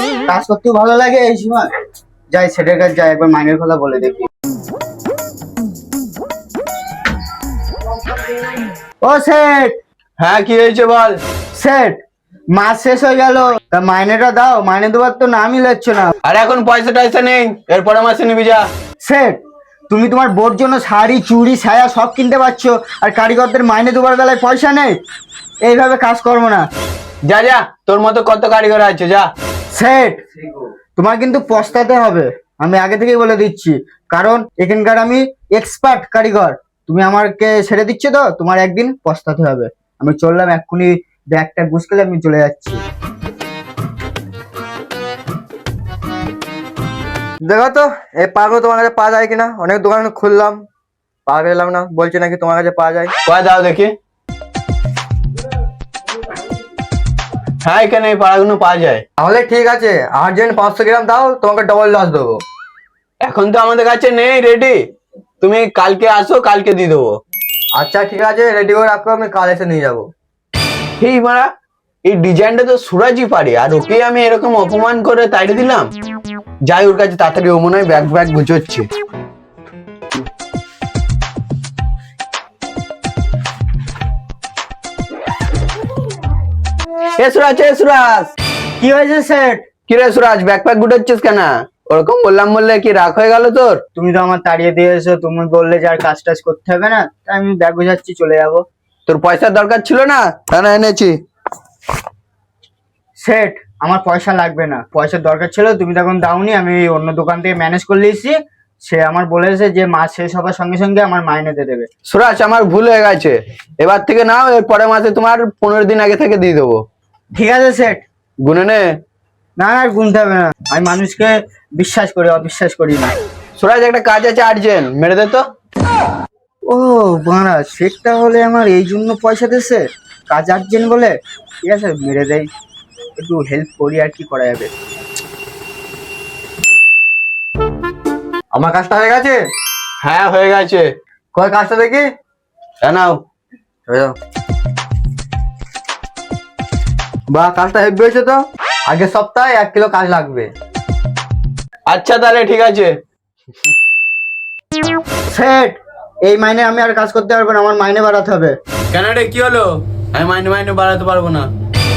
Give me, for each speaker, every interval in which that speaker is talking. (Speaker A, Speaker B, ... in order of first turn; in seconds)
Speaker A: 0.3-1.7, 2.3-4.2, 9.0-9.8, 11.5-12.0, 12.5-16.1, 19.0-25.0, 25.6-26.6, 29.7-30.2, 30.9-42.8, 88.8-89.6, 94.0-98.6, 103.2-111.9, 117.3-118.0, 119.6-123.1, 126.7-132.5, 133.2-134.7, 155.3-158.5
Speaker B: 10.2-11.2, 16.2-18.6, 27.3-29.3, 53.2-53.9, 57.6-59.0, 63.2-64.8, 65.4-67.2, 71.0-71.5, 72.0-75.9, 76.7-78.9, 87.2-88.3, 89.9-93.8, 99.1-101.2, 112.1-116.8, 118.4-118.8, 123.6-125.4, 140.0-140.8, 142.8-143.2, 151.9-152.9, 158.9-161.5
Speaker C: 47.4-50.6, 51.2-53.1, 59.2-62.4, 67.7-70.1, 138.5-139.4, 141.3-142.1, 143.9-144.1, 147.3-150.5